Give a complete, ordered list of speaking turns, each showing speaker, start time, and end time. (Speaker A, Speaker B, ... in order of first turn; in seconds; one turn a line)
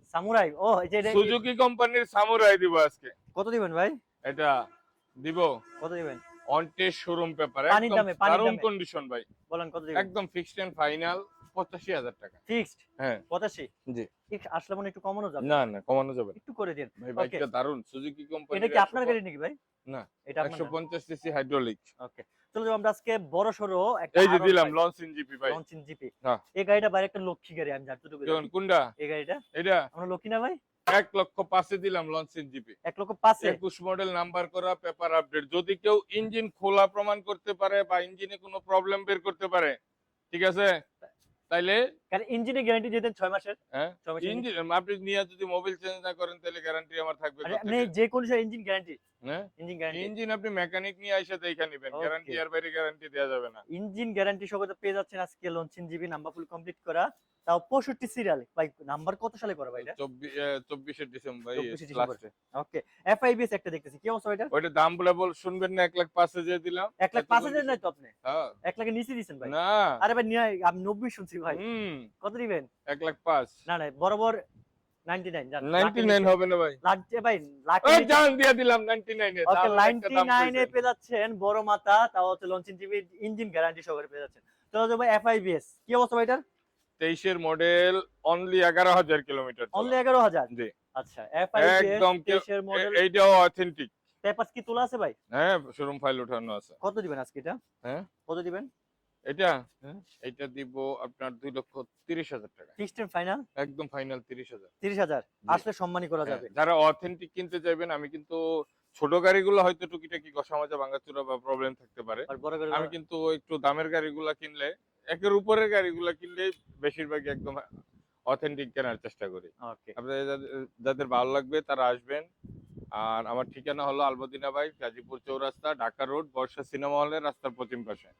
Speaker A: 0.1-1.4
Speaker B: 1.0-3.1
Speaker A: 3.3-4.0
Speaker B: 4.2-4.5
Speaker B: 5.2-5.6
Speaker A: 5.8-6.2
Speaker B: 6.5-9.2
Speaker A: 7.7-8.7
Speaker A: 9.5-10.1
Speaker B: 9.9-12.4
Speaker A: 12.5-13.7
Speaker A: 14.3-15.6
Speaker B: 15.4-16.4
Speaker A: 16.3-17.4
Speaker B: 17.0-19.1
Speaker A: 18.5-19.6
Speaker B: 19.9-21.9
Speaker A: 20.3-20.7
Speaker A: 22.0-24.8
Speaker B: 24.1-25.6
Speaker A: 25.4-29.4
Speaker B: 28.2-28.9
Speaker B: 29.5-29.9
Speaker A: 29.9-30.6
Speaker B: 30.9-32.8
Speaker A: 32.9-33.6
Speaker B: 33.4-39.8
Speaker B: 40.3-40.8
Speaker B: 41.5-41.8
Speaker A: 42.1-44.5
Speaker B: 43.7-47.9
Speaker A: 47.4-49.0
Speaker B: 49.2-53.6
Speaker A: 49.6-50.1
Speaker A: 51.9-52.4
Speaker A: 53.7-60.0
Speaker B: 59.8-62.3
Speaker A: 61.5-64.5
Speaker B: 64.5-68.5
Speaker A: 67.0-68.1
Speaker A: 68.6-71.6
Speaker B: 69.4-70.0
Speaker B: 71.5-72.1
Speaker A: 72.2-72.7
Speaker B: 72.9-73.5
Speaker A: 73.7-74.4
Speaker A: 75.1-78.2
Speaker B: 75.6-76.8
Speaker B: 77.8-80.7
Speaker A: 79.5-86.4
Speaker B: 87.0-90.0
Speaker A: 89.7-93.0
Speaker B: 91.5-93.9
Speaker A: 94.2-95.2
Speaker B: 95.3-96.7
Speaker A: 96.8-97.6
Speaker A: 98.3-98.7
Speaker B: 99.3-99.6
Speaker B: 100.2-102.7
Speaker A: 102.8-103.4
Speaker B: 103.5-104.7
Speaker A: 104.8-106.5
Speaker B: 106.2-117.6
Speaker A: 112.3-112.9
Speaker B: 118.3-122.3
Speaker A: 119.6-119.9
Speaker B: 122.9-128.1